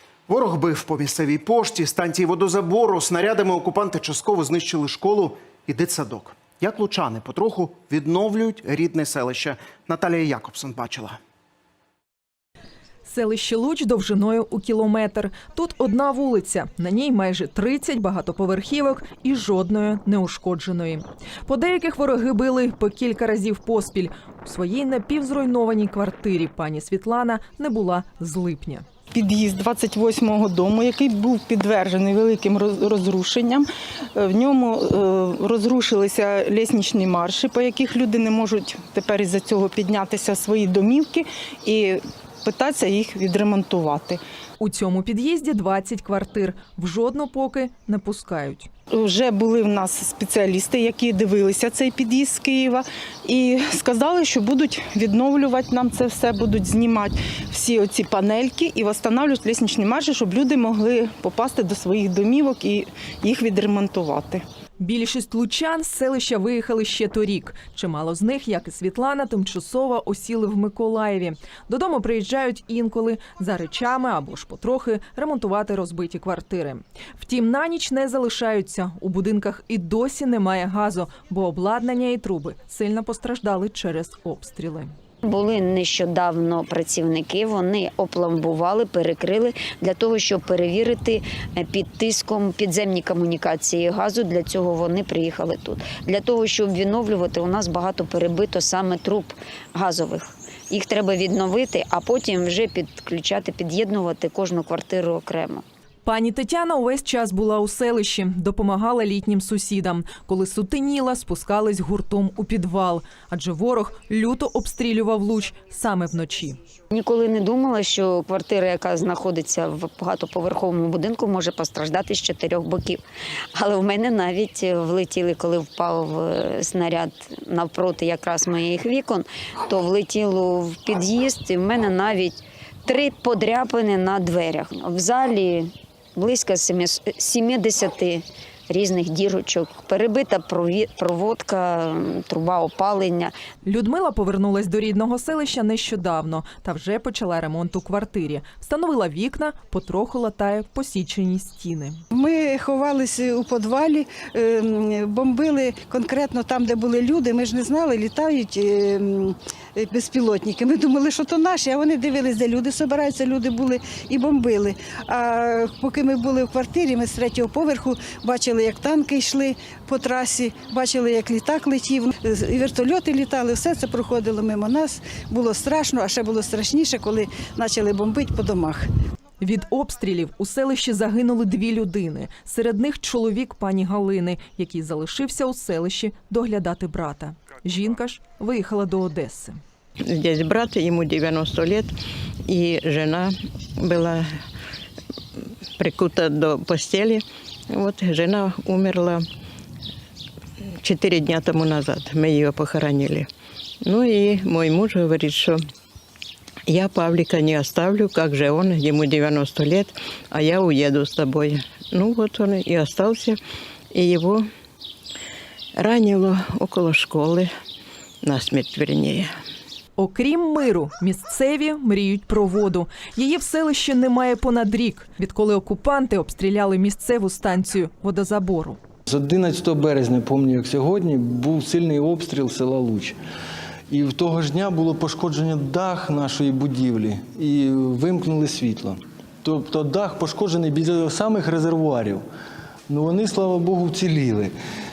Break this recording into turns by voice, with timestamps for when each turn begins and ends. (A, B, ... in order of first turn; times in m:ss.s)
0:00.3-0:11.2 A
0:13.0-0:28.8 B
0:29.1-0:44.2 C
0:44.6-0:48.7 B
0:48.9-1:04.4 C
1:04.8-1:24.9 B
1:25.2-1:45.6 D
1:46.0-1:56.6 B
1:56.9-2:03.0 D
2:03.5-2:23.3 D
2:23.6-2:32.0 B
2:32.1-2:58.9 E
2:59.4-3:09.6 B
3:10.0-3:11.9 F
3:12.5-3:14.3 F
3:15.8-3:19.2 F
3:20.8-3:23.3 F
3:23.8-3:25.6 F
3:26.7-3:33.4 F
3:33.9-3:34.5 F
3:35.8-3:37.5 F
3:38.2-3:39.3 F
3:40.0-3:48.8 B
3:49.1-3:53.1 G
3:53.9-4:02.2 G
4:02.9-4:04.5 G